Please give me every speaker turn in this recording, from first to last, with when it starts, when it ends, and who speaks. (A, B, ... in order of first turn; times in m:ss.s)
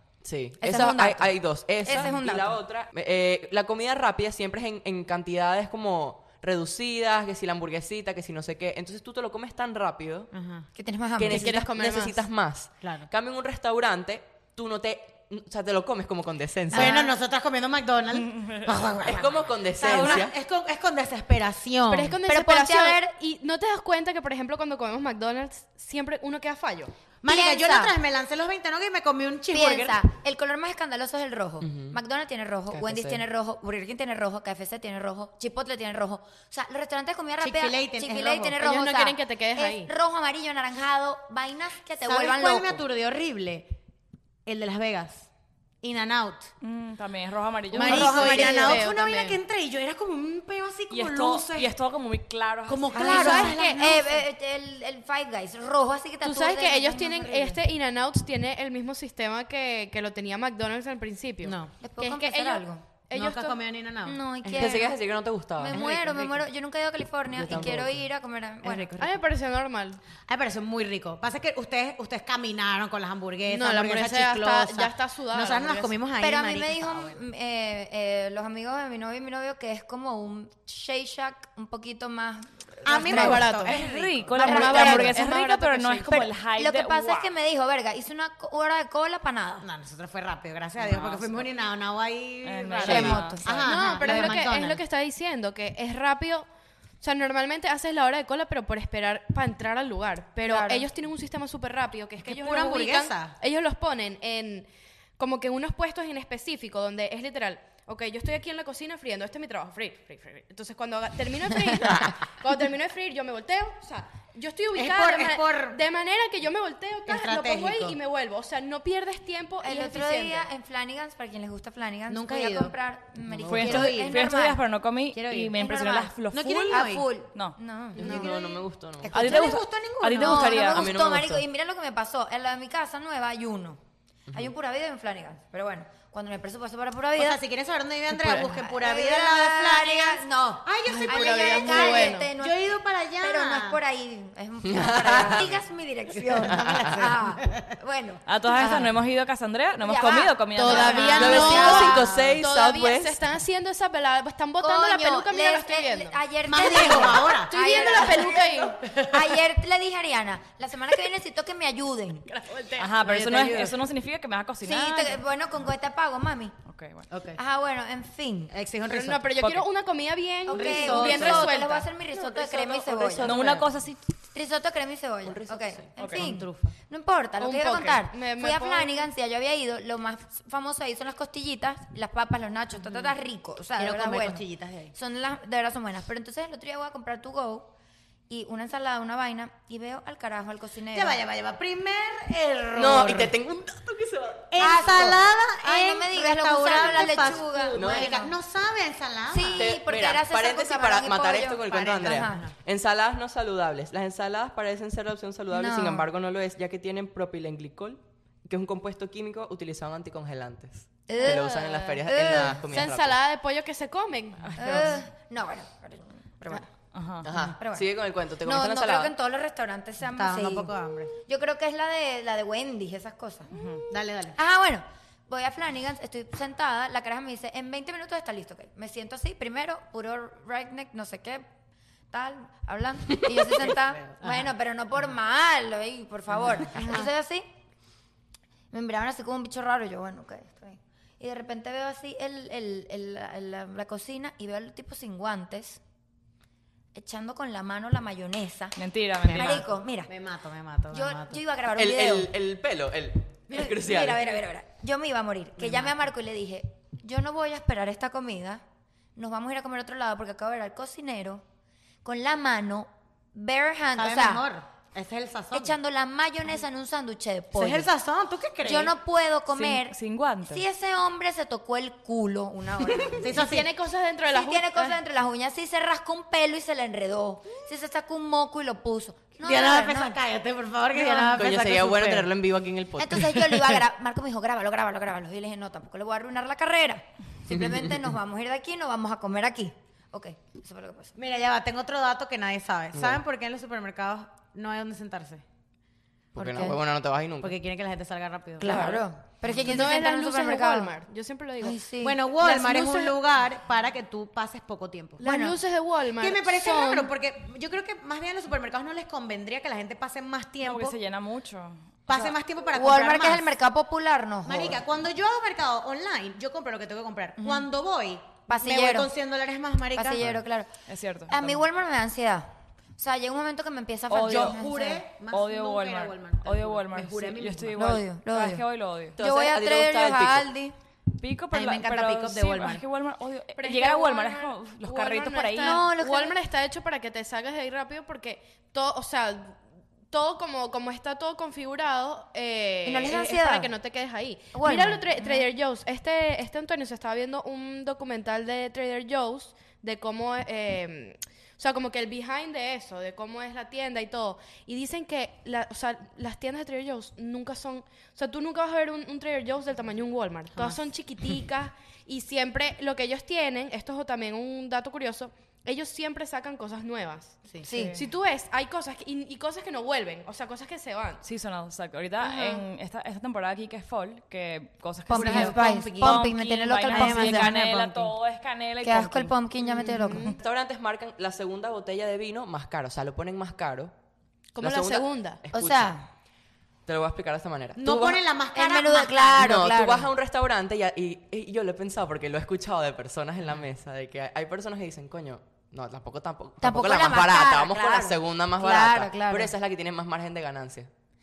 0:00.2-0:10.3 A
0:00.6-0:02.6 B
0:10.3-0:10.6 C
0:10.7-0:11.6 B
0:11.2-0:17.0 A
0:11.3-0:12.2 D
0:12.8-0:13.1 C
0:16.7-0:17.1 B
0:16.7-0:22.2 C
0:18.1-0:18.7 E
0:19.0-0:20.3 A
0:21.9-0:26.9 D
0:22.3-0:23.1 B
0:27.2-0:30.0 C
0:27.2-0:28.0 B
0:29.5-0:42.8 B
0:31.6-0:32.0 A
0:32.7-0:33.2 A
0:37.4-0:38.6 C
0:38.6-0:39.9 D
0:42.0-0:43.7 C
0:44.4-0:45.3 C
0:45.8-0:46.5 C
0:46.6-0:48.5 E
0:47.7-0:48.8 B
0:47.7-0:51.7 C
0:47.9-0:49.4 D
0:50.9-0:53.5 E
0:52.7-0:54.2 C
0:52.9-0:57.6 B
0:53.0-0:54.0 D
0:56.2-1:03.6 D
1:01.4-1:01.7 C
1:01.8-1:02.8 B
1:03.1-1:04.9 C
1:04.0-1:05.0 B
1:04.5-1:05.8 A
1:05.5-1:08.9 B
1:05.7-1:06.4 C
1:07.3-1:08.0 A
1:08.6-1:09.1 C
1:09.0-1:10.0 D
1:10.3-1:17.2 C
1:13.5-1:16.0 D
1:16.2-1:23.4 B
1:22.8-1:24.4 C
1:23.0-1:26.2 D
1:23.2-1:27.3 E
1:24.4-1:25.2 B
1:26.1-1:29.6 B
1:29.6-1:34.8 C
1:30.8-1:31.5 E
1:32.4-1:33.6 E
1:32.8-1:34.4 B
1:32.8-1:33.2 A
1:33.6-1:36.5 D
1:37.0-2:00.5 D
1:40.4-1:40.9 B
1:42.2-1:43.3 C
1:54.7-1:55.8 C
1:57.0-1:58.0 C
1:59.6-2:04.6 B
2:02.1-2:02.7 C
2:03.4-2:07.6 E
2:03.5-2:04.2 C
2:05.1-2:05.5 C
2:05.5-2:06.1 B
2:06.3-2:07.1 C
2:06.7-2:08.3 B
2:08.0-2:10.7 C
2:08.0-2:09.1 A
2:09.0-2:09.6 B
2:09.1-2:10.9 E
2:10.1-2:13.8 B
2:10.6-2:11.4 A
2:14.3-2:17.4 B
2:17.2-2:23.8 C
2:18.2-2:18.6 D
2:18.6-2:22.6 B
2:20.8-2:22.3 D
2:23.2-2:28.9 B
2:24.6-2:25.6 A
2:25.0-2:25.5 C
2:26.1-2:27.7 C
2:26.5-2:26.8 A
2:28.2-2:31.8 E
2:29.8-2:32.3 B
2:30.5-2:38.8 D
2:30.6-2:32.1 C
2:31.2-2:33.2 A
2:34.6-2:42.2 B
2:36.4-2:39.3 C
2:42.3-2:43.8 C
2:42.8-2:45.2 E
2:44.6-2:46.5 B
2:46.7-2:47.1 E
2:47.1-2:47.4 C
2:47.4-2:48.5 B
2:48.5-2:49.2 C
2:48.8-2:51.9 D
2:49.4-2:49.6 E
2:50.4-2:53.4 B
2:50.5-2:51.5 C
2:52.1-2:53.7 A
2:53.2-2:54.0 E
2:53.3-2:53.6 C
2:54.3-3:07.7 B
2:55.2-2:55.9 A
2:56.0-2:56.7 C
2:57.4-2:58.9 D
3:03.8-3:04.9 C
3:08.3-3:11.2 B
3:10.9-3:13.3 C
3:12.8-3:14.8 A
3:14.5-3:19.7 C
3:14.6-3:18.3 B
3:17.7-3:18.2 A
3:19.3-3:22.4 B
3:19.6-3:33.2 A
3:21.7-3:22.5 C
3:25.5-3:26.1 B
3:31.1-3:32.6 B
3:32.6-3:34.7 D
3:34.4-3:35.0 E
3:34.6-3:36.7 B
3:36.9-3:37.3 E
3:37.2-3:39.1 A
3:37.6-3:40.7 B
3:40.0-3:41.1 C
3:41.2-3:43.5 B
3:43.5-3:43.8 E
3:43.9-3:44.4 C
3:44.4-3:51.5 B
3:52.1-3:57.4 B
3:53.7-3:54.5 C
3:56.7-3:57.0 C
3:56.8-3:57.0 D
3:58.7-4:05.8 B
4:06.9-4:10.1 B
4:08.8-4:09.6 E
4:09.3-4:11.4 C
4:10.9-4:12.3 B
4:11.7-4:14.3 A
4:13.5-4:18.6 B
4:15.6-4:15.9 C
4:19.2-4:21.4 B
4:22.0-4:24.4 B
4:23.9-4:25.8 C
4:25.5-4:27.9 B
4:27.5-4:28.9 C
4:28.6-4:30.0 B
4:29.5-4:30.6 E
4:30.5-4:33.2 B
4:33.2-4:33.7 C
4:33.3-4:34.8 D
4:34.3-4:40.1 B
4:39.4-4:42.3 C
4:40.9-4:41.4 B
4:41.3-4:43.8 A
4:43.0-4:51.1 B
4:47.5-4:48.0 A
4:51.2-4:55.4 C
4:52.9-4:53.2 A
4:56.3-4:57.6 A
4:56.4-4:56.8 B
4:57.4-4:59.0 C
4:58.6-5:01.0 B
4:59.6-5:01.8 D
5:01.6-5:02.2 B
5:02.0-5:05.2 C
5:02.4-5:03.2 D
5:05.2-5:07.1 D
5:05.2-5:05.6 B
5:06.2-5:11.0 C
5:10.6-5:12.3 E
5:12.1-5:13.5 C
5:12.7-5:14.8 B
5:14.4-5:20.2 C
5:17.4-5:17.7 B
5:18.5-5:19.1 B
5:20.0-5:20.7 B
5:20.9-5:21.6 E
5:21.3-5:25.0 B
5:24.1-5:24.6 E
5:24.2-5:27.8 C
5:25.2-5:29.2 E
5:27.7-5:28.6 B
5:29.2-5:30.5 A
5:29.2-5:30.7 B
5:31.1-5:35.8 E
5:31.5-5:32.8 C
5:33.6-6:07.4 D
5:35.6-5:36.4 B
5:42.8-5:43.7 B
5:44.5-5:45.5 B
6:00.5-6:00.8 C
6:07.6-6:08.0 B
6:07.7-6:08.0 E
6:07.9-6:11.2 D
6:11.2-6:19.3 E
6:12.2-6:12.6 B
6:15.1-6:17.5 B
6:15.1-6:16.3 C
6:16.9-6:18.1 C
6:18.8-6:20.4 B
6:19.8-6:20.4 D
6:20.4-6:23.9 A
6:24.5-6:25.4 D
6:24.6-6:25.9 A
6:25.5-6:26.1 B
6:26.8-6:28.2 A
6:27.8-6:29.6 C
6:28.5-6:30.1 B
6:29.4-6:40.9 A
6:36.6-6:39.5 B